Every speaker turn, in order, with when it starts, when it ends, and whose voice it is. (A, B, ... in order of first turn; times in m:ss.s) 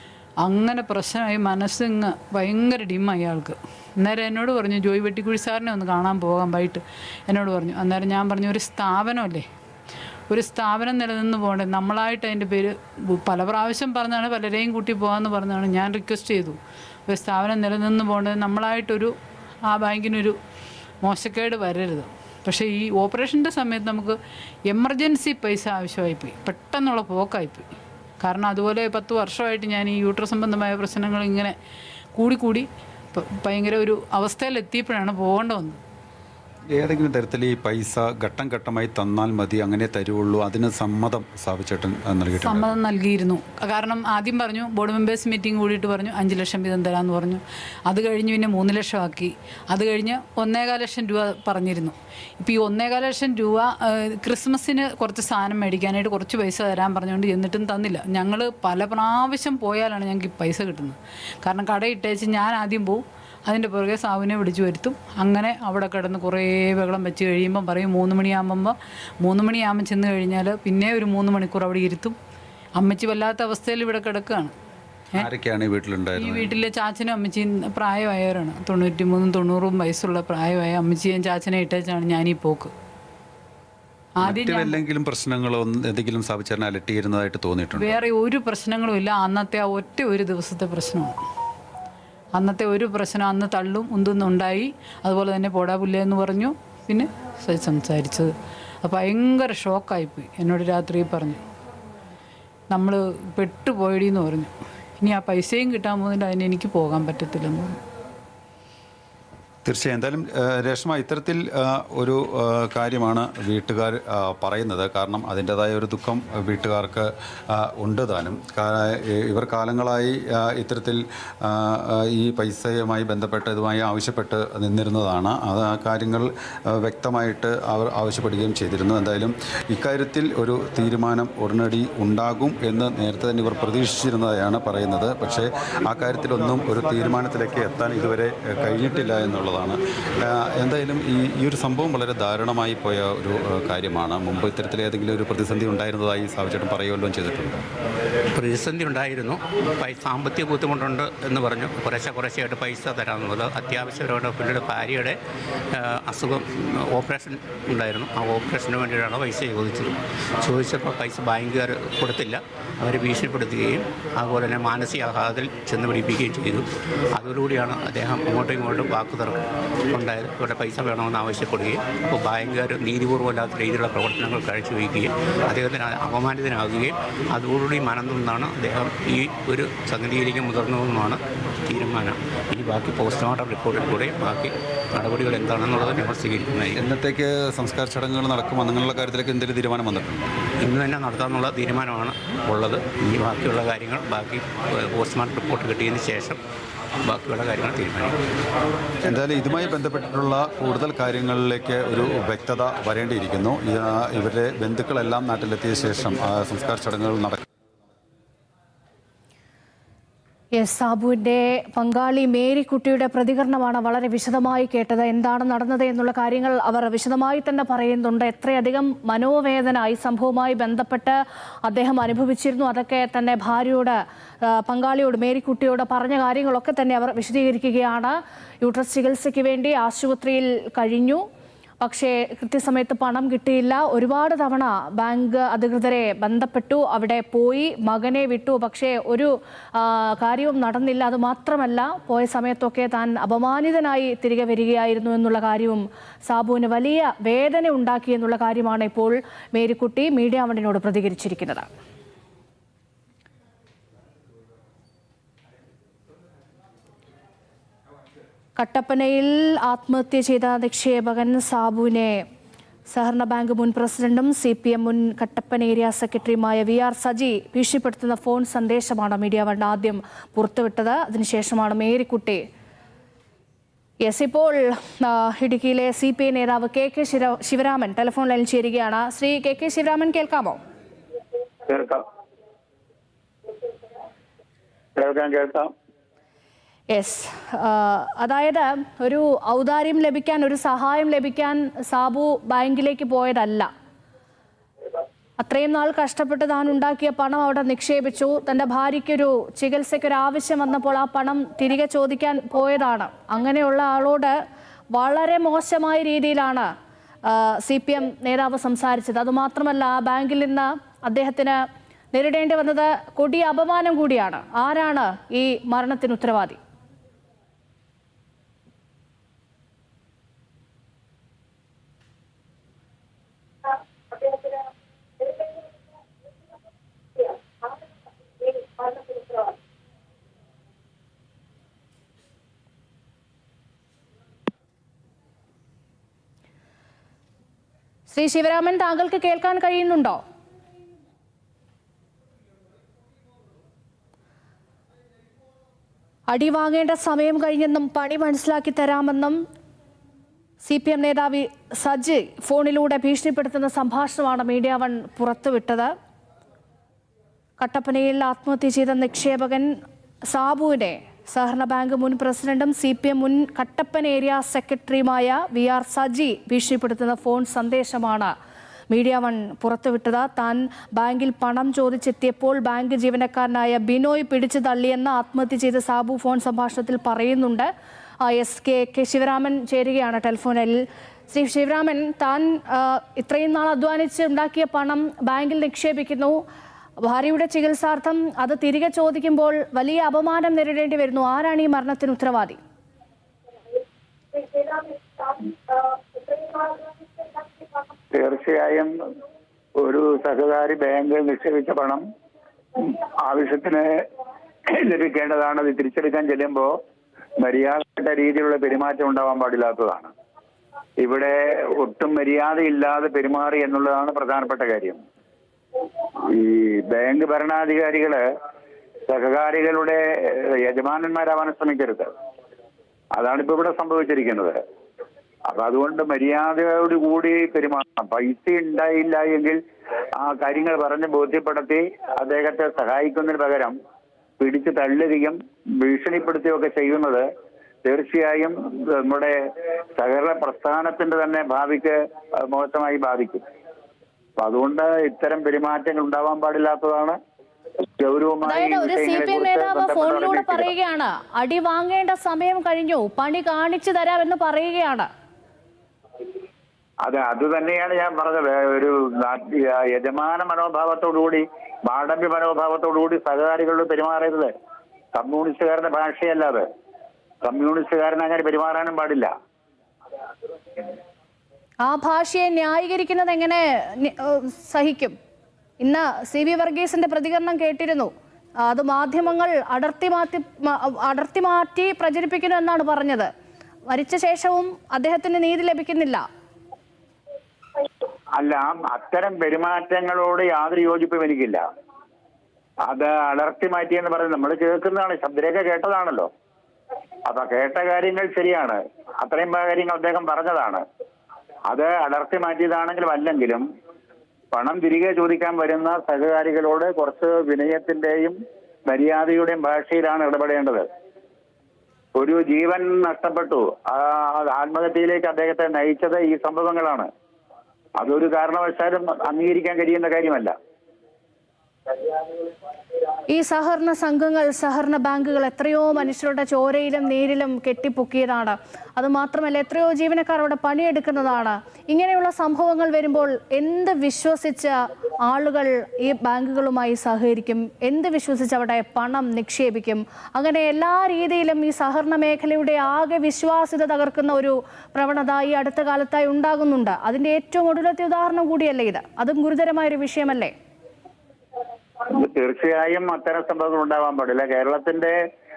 0:00.4-0:09.5 A
0:10.3-0:19.1 A
0:19.7-0:20.4 A
0:21.0-0:27.7 A
0:28.2-0:31.5 A
0:32.2-0:35.8 A
0:36.7-0:42.7 B
0:42.4-1:12.2 A
1:12.8-1:14.5 A
1:15.2-1:16.6 B
1:16.2-1:22.7 A
1:24.2-1:24.7 A
1:24.2-1:28.0 B
1:27.8-1:31.2 A
1:32.4-1:41.4 A
1:42.7-1:47.8 A
1:49.6-2:27.6 B
2:28.3-2:35.2 C
2:35.7-3:06.8 C
3:06.7-3:10.3 B
3:10.6-3:16.4 C
3:17.0-3:18.2 C
3:19.0-3:27.4 B
3:30.6-3:51.2 D
3:51.8-4:11.7 D
4:18.6-4:22.2 D
4:22.9-4:32.4 D
4:34.0-4:40.6 D
4:41.7-4:42.0 E
4:45.0-4:45.7 E
4:46.9-4:53.7 D
4:55.4-5:04.3 D
5:04.9-5:06.7 D
5:07.2-5:11.6 D
5:12.1-5:16.6 D
5:38.1-5:40.2 D
5:46.3-5:49.4 D
5:50.6-5:55.9 D
5:57.6-5:59.7 D
6:00.3-6:08.3 D
6:08.9-6:17.7 D
6:18.2-6:26.4 D
6:27.0-6:32.6 D
6:38.1-6:38.9 E
6:39.8-6:42.0 E
6:42.8-6:43.9 E
6:44.7-6:46.7 E
6:47.4-6:50.1 E
6:51.0-6:55.0 E
6:56.3-6:58.2 E
6:59.1-7:02.1 E
7:03.2-7:04.6 E
7:05.5-7:09.6 E
7:10.2-7:13.8 E
7:14.4-7:17.3 E
7:17.8-7:19.3 E
7:20.0-7:23.4 E
7:24.4-7:27.2 E
7:28.0-7:30.7 E
7:28.4-7:35.1 D
7:37.0-7:44.5 E
7:45.2-7:46.6 E
7:47.4-7:49.3 E
7:51.8-7:55.2 D
7:55.8-7:58.1 D
7:58.6-8:03.3 D
8:03.9-8:06.2 D
8:08.4-8:11.6 E
8:12.9-8:16.3 E
8:17.3-8:20.8 E
8:21.7-8:23.6 E
8:24.5-8:30.8 E
8:32.2-8:37.1 E
8:38.0-8:40.5 E
8:43.3-9:10.5 D
9:12.1-9:15.2 E